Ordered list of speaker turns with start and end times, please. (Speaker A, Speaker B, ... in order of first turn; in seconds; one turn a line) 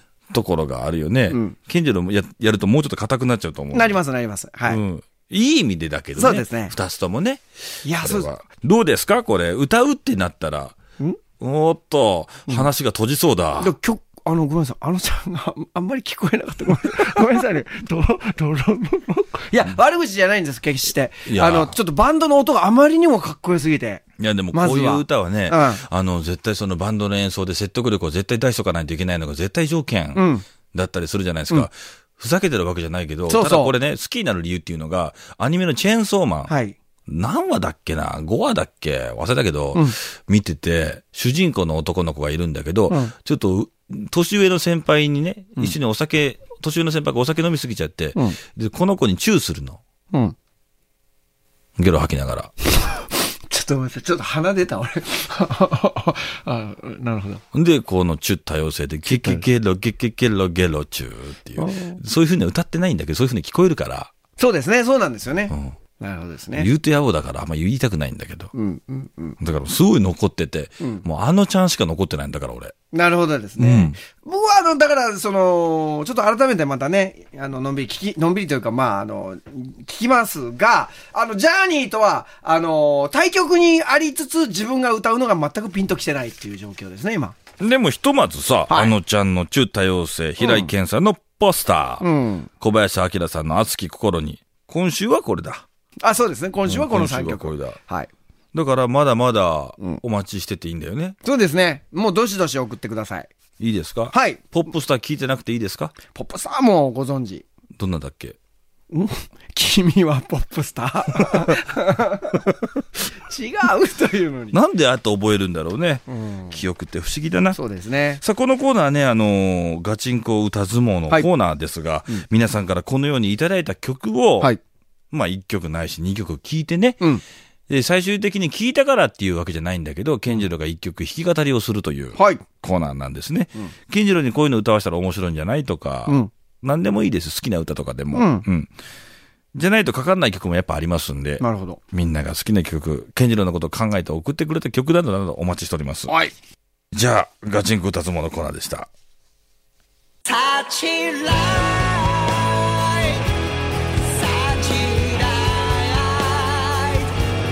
Speaker A: 0.3-4.0
Speaker B: 1.3-1.5
Speaker B: 3.7-4.8
Speaker A: 4.7-10.8
Speaker B: 6.2-6.7
Speaker B: 7.8-8.3
Speaker A: 11.4-13.7
Speaker B: 13.6-25.8
Speaker A: 21.2-21.7
Speaker A: 24.2-36.5
Speaker B: 30.1-30.4
Speaker B: 33.3-33.7
Speaker B: 36.5-36.8
Speaker A: 37.1-49.8
Speaker A: 51.8-52.5
Speaker B: 53.5-57.4
Speaker A: 57.5-64.1
Speaker B: 59.0-59.4
Speaker B: 61.6-62.0
Speaker B: 64.4-66.7
Speaker A: 65.5-65.8
Speaker A: 66.5-68.5
Speaker B: 68.5-69.4
Speaker A: 69.4-72.7
Speaker B: 72.9-87.3
Speaker A: 73.6-74.0
Speaker A: 87.6-92.0
Speaker B: 88.7-88.9
Speaker B: 90.4-90.7
Speaker B: 92.0-92.5
Speaker A: 92.6-95.6
Speaker B: 96.0-98.1
Speaker A: 96.7-97.8
Speaker A: 98.5-101.2
Speaker B: 101.2-103.3
Speaker A: 103.6-105.9
Speaker B: 104.1-104.5
Speaker B: 106.1-107.4
Speaker A: 107.8-108.4
Speaker B: 108.9-112.5
Speaker A: 111.2-111.5
Speaker B: 113.2-114.6
Speaker A: 114.5-117.6
Speaker B: 116.1-116.6
Speaker B: 117.5-118.2
Speaker A: 118.2-124.5
Speaker A: 125.1-127.0
Speaker A: 127.7-138.7
Speaker B: 132.1-132.4
Speaker B: 138.1-138.4
Speaker A: 139.5-146.1
Speaker B: 141.4-141.8
Speaker A: 146.9-148.9
Speaker B: 150.2-153.2
Speaker B: 154.0-157.1